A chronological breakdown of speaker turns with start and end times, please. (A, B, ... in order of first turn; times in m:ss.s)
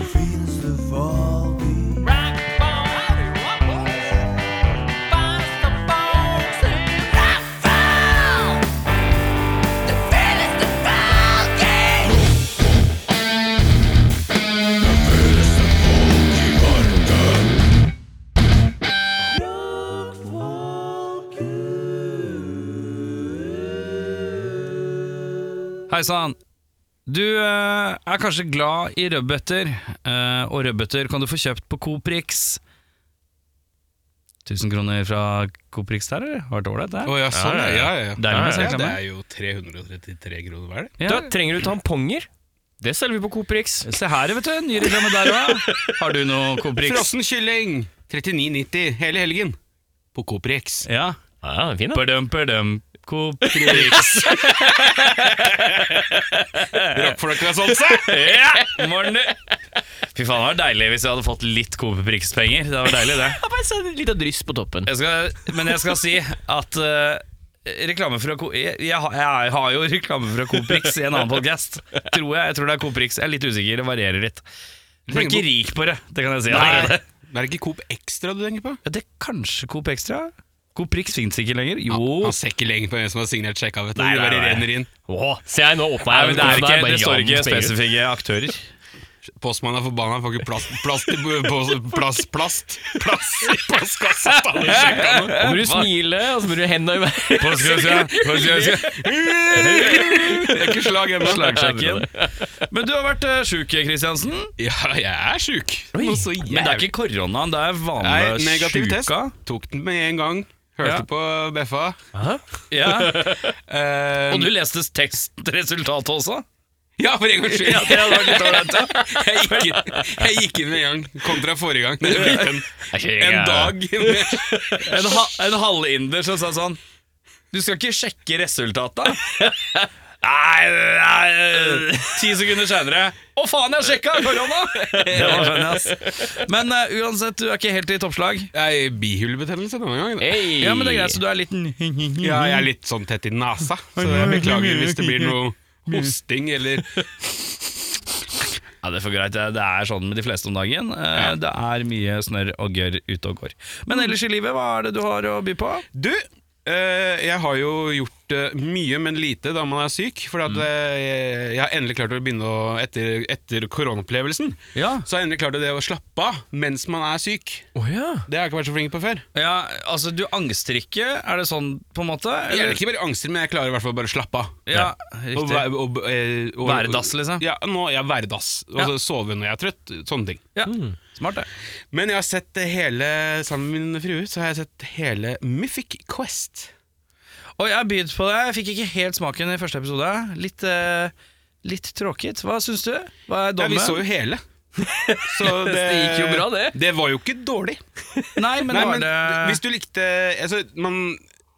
0:02.0-0:03.8 A
0:05.1-0:06.9 A
0:25.9-0:26.4 A
0:27.1-0:32.6 A
0:34.4-0:37.2 A
0:37.0-0:41.0 B
0:37.3-0:38.7 C
0:38.2-0:39.0 A
0:41.0-0:41.3 A
0:41.0-0:42.3 C
0:42.8-0:43.9 C
0:43.8-0:47.1 A
0:46.8-0:49.6 B
0:50.1-0:50.9 B
0:50.9-0:51.2 A
0:51.4-0:52.1 C
0:51.9-0:57.2 A
0:53.5-0:55.0 C
0:53.6-0:54.6 B
0:56.9-0:58.3 B
0:57.8-0:59.4 A
0:58.5-0:58.8 C
1:00.1-1:03.4 A
1:02.9-1:04.9 C
1:04.9-1:14.4 A
1:05.4-1:05.8 C
1:15.1-1:17.0 A
1:15.1-1:15.5 B
1:16.5-1:18.8 B
1:18.8-1:22.4 A
1:21.9-1:24.9 B
1:24.0-1:25.4 A
1:25.2-1:27.8 C
1:26.1-1:28.7 A
1:29.3-1:35.3 B
1:34.3-1:35.9 A
1:34.6-1:37.9 C
1:37.4-1:42.1 A
1:37.5-1:41.6 B
1:39.6-1:40.6 C
1:41.3-1:42.6 C
1:42.6-1:44.5 A
1:44.6-1:46.9 B
1:46.0-1:46.7 C
1:46.5-1:49.3 A
1:48.0-1:52.0 B
1:52.2-1:53.3 C
1:52.7-1:53.6 A
1:53.6-1:54.5 B
1:54.3-1:56.4 A
1:57.0-2:05.2 B
1:57.5-1:59.8 A
2:02.1-2:02.5 A
2:02.8-2:03.8 C
2:04.3-2:06.8 A
2:07.5-2:18.5 A
2:15.2-2:16.2 C
2:18.5-2:20.5 B
2:20.2-2:21.2 C
2:20.6-2:22.7 A
2:22.2-2:27.5 B
2:24.0-2:25.4 A
2:28.8-2:35.8 A
2:35.9-2:47.7 B
2:44.8-2:45.1 A
2:47.8-2:48.3 C
2:48.3-2:49.2 B
2:49.3-2:52.8 A
2:52.5-2:54.8 B
2:54.7-2:55.7 A
2:55.3-3:00.4 B
2:56.6-2:57.4 A
3:00.6-3:01.5 A
3:00.7-3:01.0 C
3:01.9-3:06.7 B
3:07.6-3:11.1 A
3:11.6-3:14.0 A
3:13.6-3:14.4 B
3:14.8-3:16.8 C
3:15.3-3:17.8 B
3:18.4-3:19.6 A
3:18.7-3:21.2 B